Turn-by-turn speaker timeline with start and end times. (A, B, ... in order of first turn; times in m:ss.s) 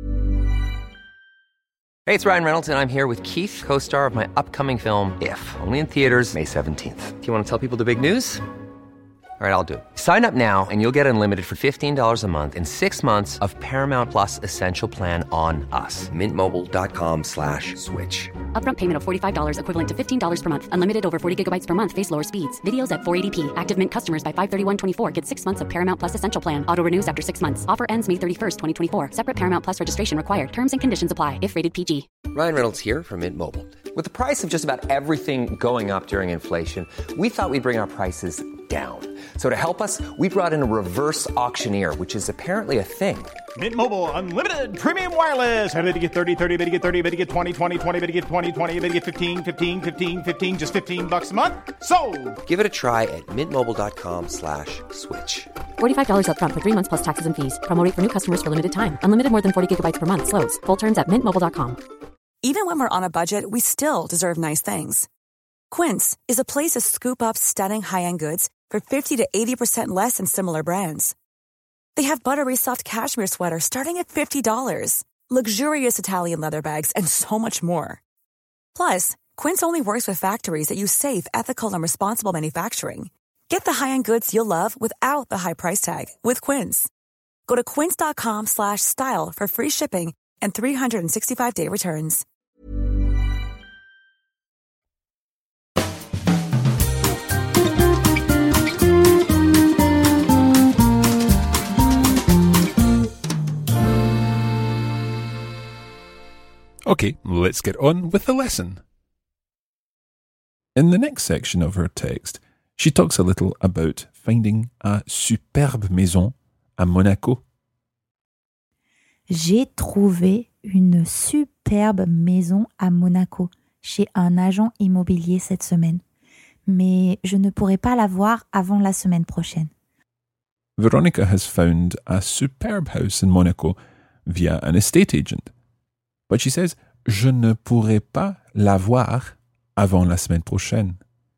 0:02.0-0:08.4 A
0:09.4-0:18.3 A
0:18.5-0:32.0 B
0:32.3-0:43.3 A
0:43.6-0:52.4 C
0:52.4-0:55.5 A
0:55.8-1:01.8 B
1:02.4-1:05.1 D
1:05.7-1:11.2 D
1:11.9-1:18.0 D
1:18.7-1:26.9 D
1:27.5-1:32.2 D
1:46.9-1:48.8 E
1:50.7-1:57.4 E
1:59.3-2:06.0 F
2:06.6-2:09.7 F
2:10.8-2:15.5 E
2:16.3-2:21.0 E